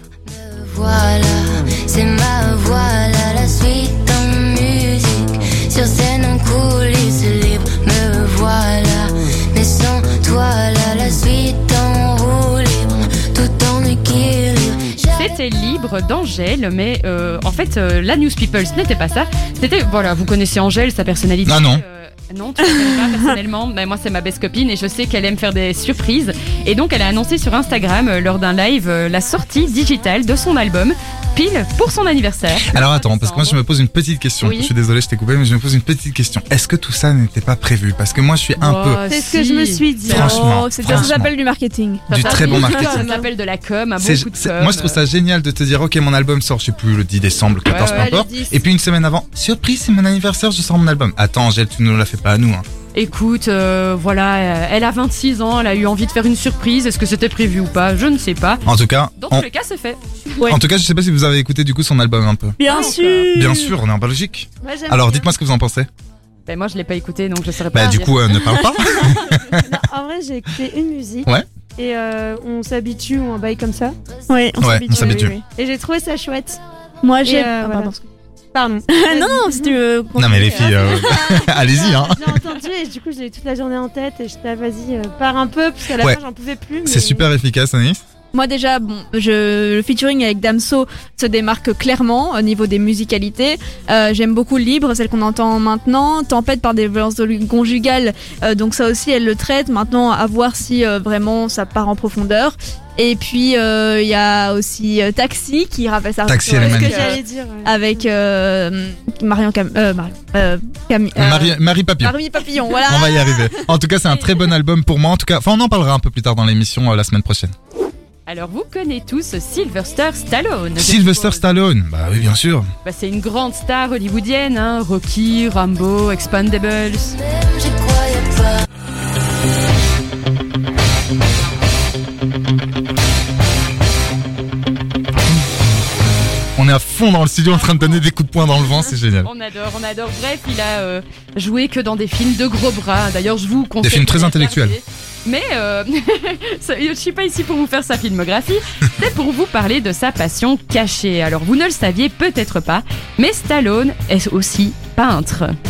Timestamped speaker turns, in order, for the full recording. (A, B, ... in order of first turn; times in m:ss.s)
0:00.3-0:15.1 A
0:15.0-0:33.6 B
0:21.5-0:21.8 C
0:32.7-0:39.0 C
0:34.4-0:34.7 B
0:38.6-0:41.1 B
0:39.1-0:40.1 D
0:40.0-0:41.3 C
0:40.1-0:43.0 E
0:42.1-0:43.1 C
0:42.1-0:45.0 B
0:42.2-0:43.2 D
0:44.0-0:52.7 C
0:47.7-0:48.1 B
0:47.8-0:48.6 D
0:52.9-0:58.7 B
0:58.7-0:59.5 C
0:59.2-1:00.0 B
1:00.5-1:02.6 C
1:02.6-1:03.7 E
1:02.6-1:03.3 B
1:03.3-1:05.9 C
1:04.6-1:05.2 D
1:06.5-1:08.2 B
1:07.7-1:09.6 C
1:08.4-1:09.2 E
1:09.7-1:13.9 D
1:14.3-1:15.4 E
1:14.6-1:15.4 C
1:14.8-1:16.6 D
1:17.0-1:18.0 E
1:17.2-1:17.9 D
1:18.6-1:19.8 D
1:18.9-1:21.9 E
1:20.2-1:22.4 C
1:21.8-1:27.2 D
1:26.8-1:28.0 C
1:28.3-1:53.8 E
1:46.2-1:47.1 C
1:46.6-1:47.7 D
1:46.8-1:47.2 B
1:51.2-1:52.2 C
1:52.9-1:57.5 C
1:58.3-2:01.5 B
2:00.8-2:02.7 C
2:02.8-2:07.2 B
2:07.4-2:08.6 A
2:16.6-2:19.3 C
2:17.6-2:18.0 B
2:19.2-2:35.6 B
2:23.8-2:24.8 C